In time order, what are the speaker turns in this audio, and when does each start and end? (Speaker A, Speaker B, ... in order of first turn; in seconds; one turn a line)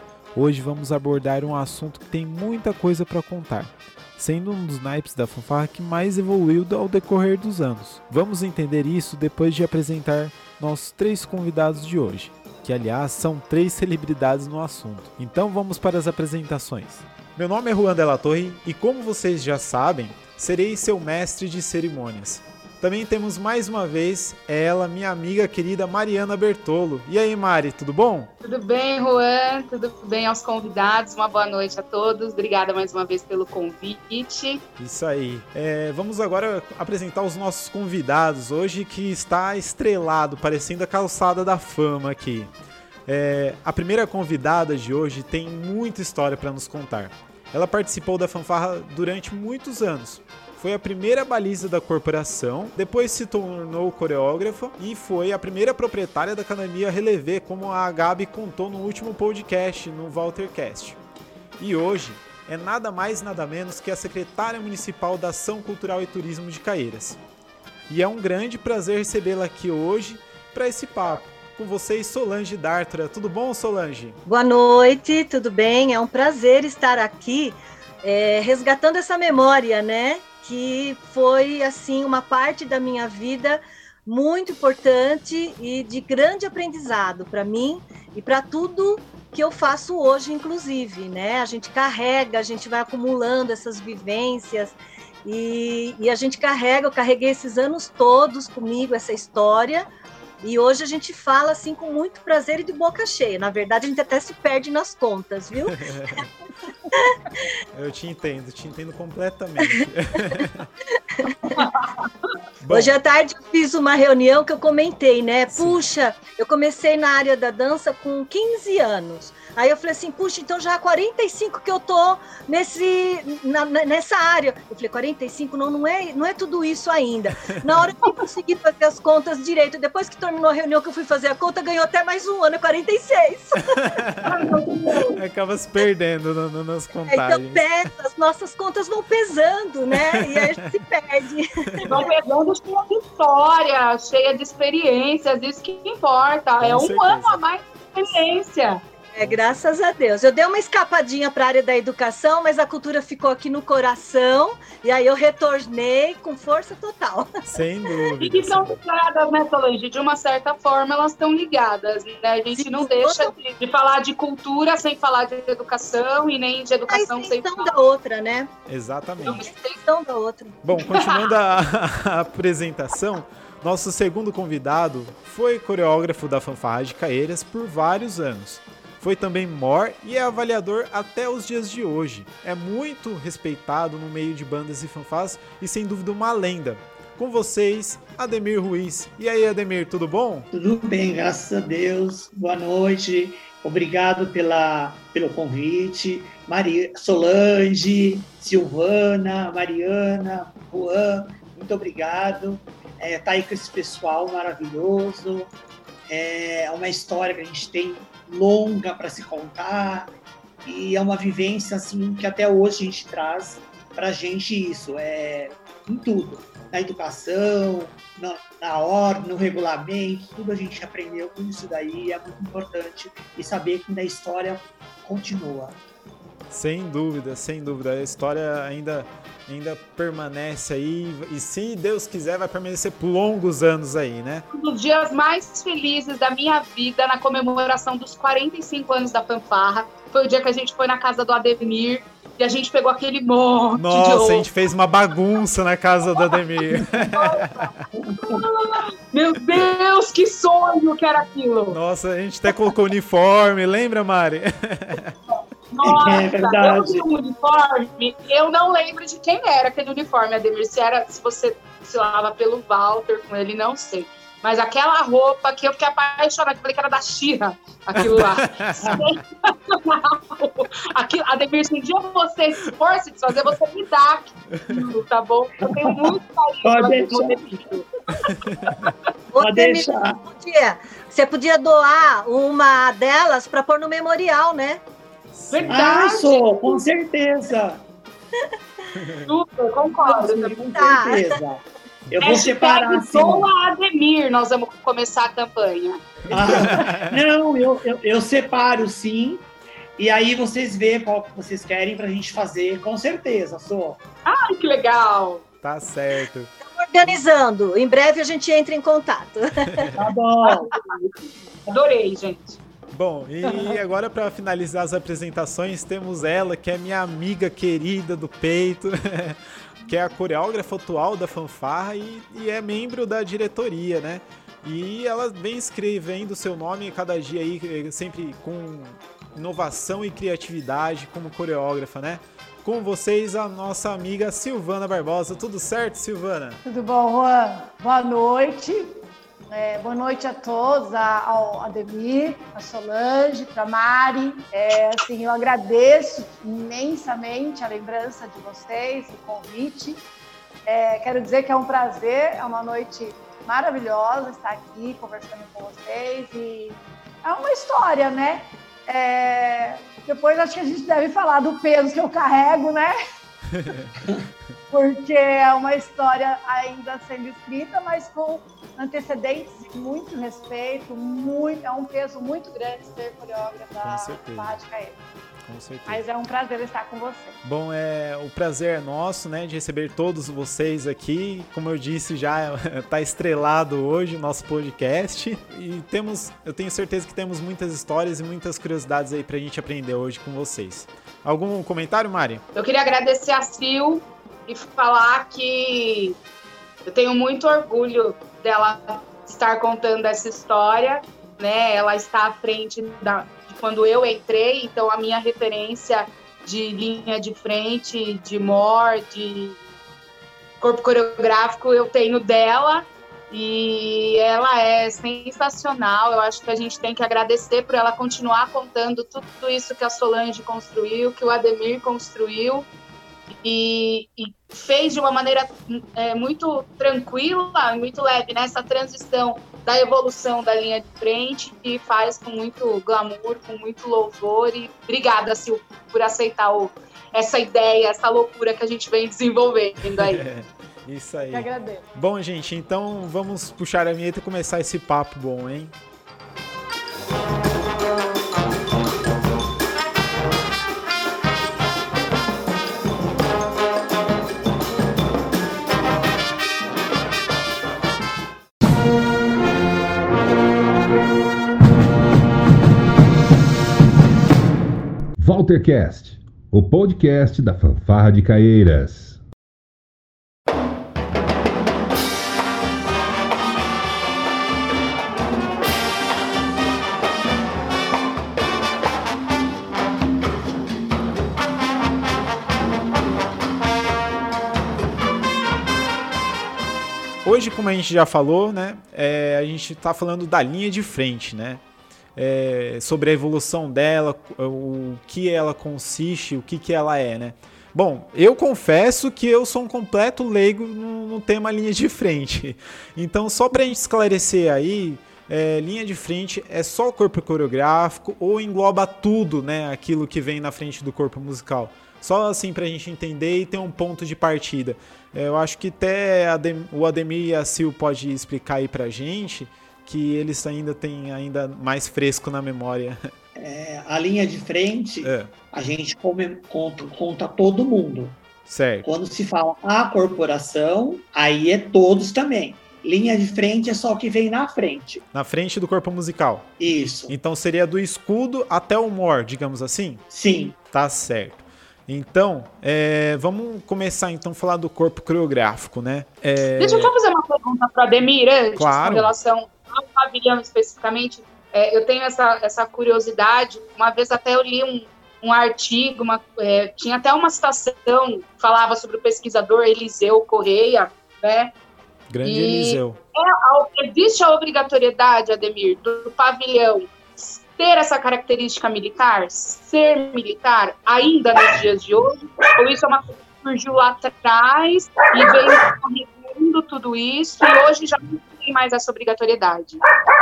Speaker A: 0.3-28.3
Speaker B: 28.4-34.6
Speaker A: 34.8-42.5
Speaker A: 43.1-61.0
Speaker A: 61.6-67.2
Speaker A: 67.9-74.2
Speaker C: 74.2-99.9
Speaker C: 100.4-105.8
Speaker A: 105.7-106.3
Speaker A: 107.7-110.7
Speaker C: 111.2-111.7
Speaker A: 112.6-113.0
Speaker C: 112.7-133.8
Speaker A: 115.5-115.8
Speaker A: 133.7-134.3
Speaker B: 134.2-135.2
Speaker A: 135.1-137.7
Speaker C: 137.1-142.1
Speaker A: 139.9-140.8
Speaker B: 141.8-148.8
Speaker A: 146.6-147.4
Speaker C: 149.1-157.3
Speaker A: 149.2-149.6
Speaker A: 157.4-158.8
Speaker B: 158.2-167.7
Speaker C: 162.5-163.3
Speaker C: 166.9-168.5
Speaker A: 168.7-169.4
Speaker B: 169.2-169.8
Speaker C: 169.8-170.6
Speaker A: 170.6-190.5
Speaker B: 170.9-171.2
Speaker D: 190.5-205.5
Speaker D: 206.1-210.1
Speaker D: 210.7-225.8
Speaker A: 226.5-234.4
Speaker B: 234.5-244.5
Speaker A: 243.7-247.8
Speaker B: 246.2-251.8
Speaker D: 247.9-248.4
Speaker A: 251.7-255.1
Speaker B: 255.7-278.9
Speaker D: 255.8-257.0
Speaker A: 268.0-269.1
Speaker D: 275.7-275.9
Speaker D: 276.6-277.7
Speaker A: 278.3-278.9
Speaker C: 279.3-284.8
Speaker D: 279.4-280.2
Speaker A: 285.3-285.8
Speaker B: 285.5-286.8
Speaker D: 285.7-287.8
Speaker A: 288.9-289.3
Speaker B: 289.2-290.6
Speaker C: 290.1-291.4
Speaker D: 290.3-293.5
Speaker B: 292.2-296.1
Speaker D: 296.3-299.4
Speaker A: 296.3-297.2
Speaker D: 300.0-304.0
Speaker B: 304.2-305.4
Speaker A: 305.6-307.2
Speaker C: 306.6-309.9
Speaker D: 309.9-310.8
Speaker B: 310.4-311.1
Speaker B: 311.7-312.6
Speaker A: 312.9-336.6
Speaker E: 336.6-350.0
Speaker E: 350.6-362.9
Speaker A: 363.6-363.9
Speaker E: 364.7-375.0
Speaker A: 373.8-374.6
Speaker A: 375.4-376.0
Speaker E: 375.9-377.4
Speaker A: 377.4-392.4
Speaker B: 392.6-396.2
Speaker B: 396.9-409.6
Speaker B: 410.6-422.7
Speaker B: 423.4-440.2
Speaker A: 439.9-445.7
Speaker E: 441.2-441.8
Speaker F: 465.2-469.2
Speaker A: 487.2-491.6
Speaker A: 492.2-523.1
Speaker D: 523.4-528.2
Speaker A: 525.0-525.3
Speaker A: 528.5-528.9
Speaker D: 528.8-535.0
Speaker A: 535.1-540.0
Speaker D: 536.6-537.1
Speaker D: 540.1-540.6
Speaker A: 540.7-546.9
Speaker B: 546.6-561.5
Speaker A: 548.6-549.1
Speaker A: 562.1-563.0
Speaker B: 562.2-579.8